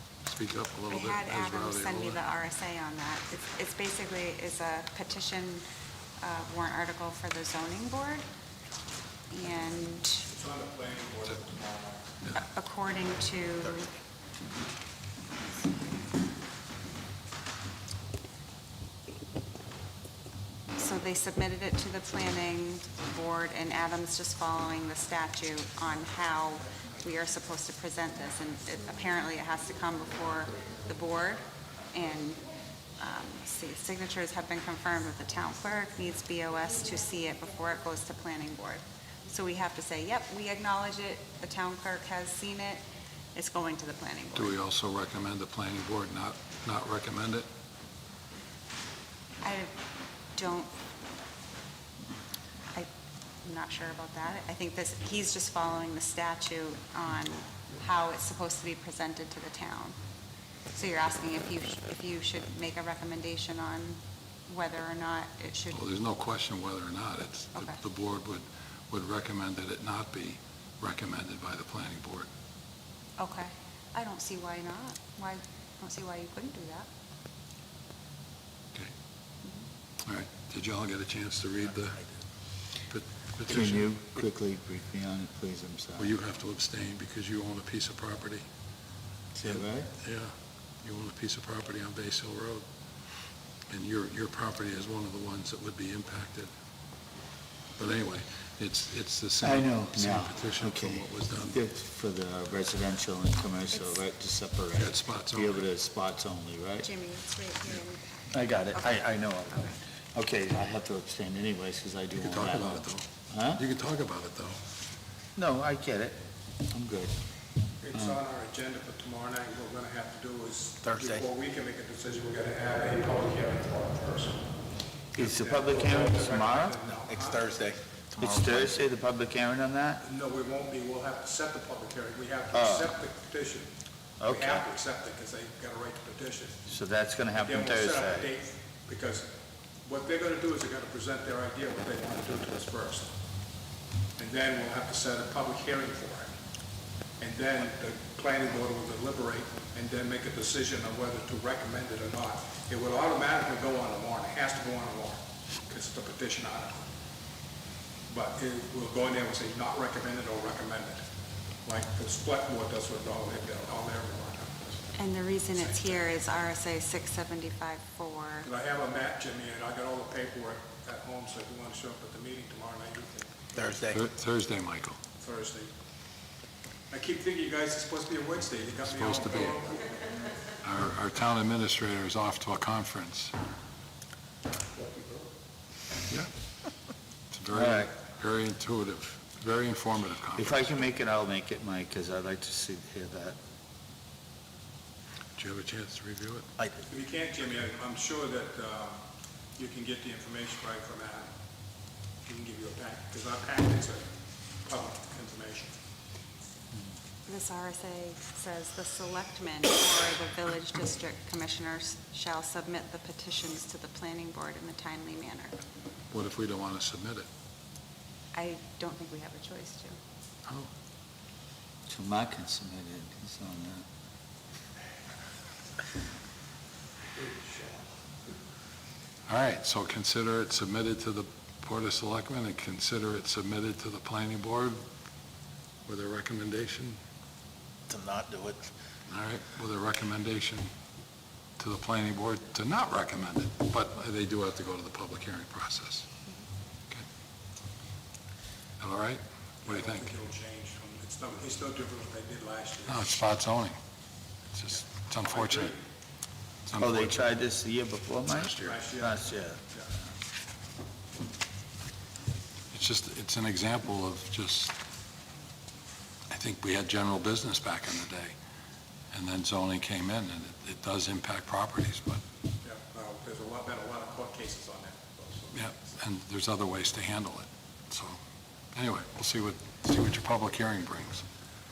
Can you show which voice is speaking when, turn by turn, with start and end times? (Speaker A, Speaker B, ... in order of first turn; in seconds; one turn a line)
Speaker A: 0.3-2.2
Speaker B: 0.9-5.7
Speaker B: 6.2-8.2
Speaker B: 9.3-10.3
Speaker C: 10.3-12.1
Speaker B: 12.4-13.9
Speaker B: 20.8-32.4
Speaker B: 33.0-42.8
Speaker B: 43.4-44.6
Speaker A: 44.4-47.5
Speaker B: 49.4-49.7
Speaker B: 50.4-50.7
Speaker B: 53.4-60.0
Speaker B: 60.7-65.8
Speaker A: 65.7-72.3
Speaker B: 73.2-76.9
Speaker A: 80.0-82.1
Speaker A: 82.9-83.9
Speaker D: 83.5-86.2
Speaker A: 86.0-88.5
Speaker D: 89.4-89.9
Speaker A: 89.4-90.3
Speaker A: 90.8-92.7
Speaker A: 93.7-96.5
Speaker A: 97.8-101.6
Speaker D: 99.4-106.9
Speaker A: 104.8-105.7
Speaker B: 106.8-109.8
Speaker D: 108.3-113.6
Speaker A: 112.2-114.6
Speaker D: 115.4-117.2
Speaker C: 117.8-124.4
Speaker E: 120.8-121.3
Speaker C: 125.1-127.6
Speaker D: 125.2-126.8
Speaker E: 126.8-128.8
Speaker D: 128.2-130.0
Speaker C: 130.0-133.7
Speaker D: 132.5-132.9
Speaker D: 134.2-134.7
Speaker C: 134.2-136.6
Speaker D: 136.7-138.3
Speaker C: 137.4-139.3
Speaker C: 139.8-143.1
Speaker C: 144.2-146.3
Speaker C: 147.2-156.8
Speaker C: 158.1-161.0
Speaker C: 161.7-165.0
Speaker B: 164.9-168.5
Speaker C: 165.5-166.1
Speaker C: 168.4-173.5
Speaker E: 173.6-174.0
Speaker A: 173.9-175.0
Speaker C: 175.2-175.7
Speaker C: 176.9-180.0
Speaker A: 178.8-179.6
Speaker A: 180.6-183.3
Speaker A: 187.3-190.7
Speaker D: 187.5-187.9
Speaker D: 190.4-193.4
Speaker A: 195.4-196.5
Speaker C: 196.9-199.0
Speaker C: 199.6-201.3
Speaker C: 202.3-204.1
Speaker C: 204.6-205.8
Speaker B: 207.3-215.6
Speaker A: 216.1-217.3
Speaker B: 218.3-220.0
Speaker D: 221.9-223.8
Speaker A: 229.3-234.8
Speaker A: 235.9-237.0
Speaker E: 237.9-238.7
Speaker A: 239.1-240.7
Speaker A: 241.6-246.1
Speaker A: 248.8-250.1
Speaker C: 249.6-253.1
Speaker A: 252.9-253.8
Speaker A: 254.6-255.8
Speaker C: 254.7-255.8
Speaker A: 256.7-257.3
Speaker D: 256.7-259.6
Speaker A: 258.3-258.8
Speaker C: 258.6-259.2
Speaker A: 262.7-264.7
Speaker A: 266.3-268.3
Speaker A: 269.1-272.2
Speaker C: 272.6-275.6
Speaker A: 275.5-278.2
Speaker A: 278.7-281.2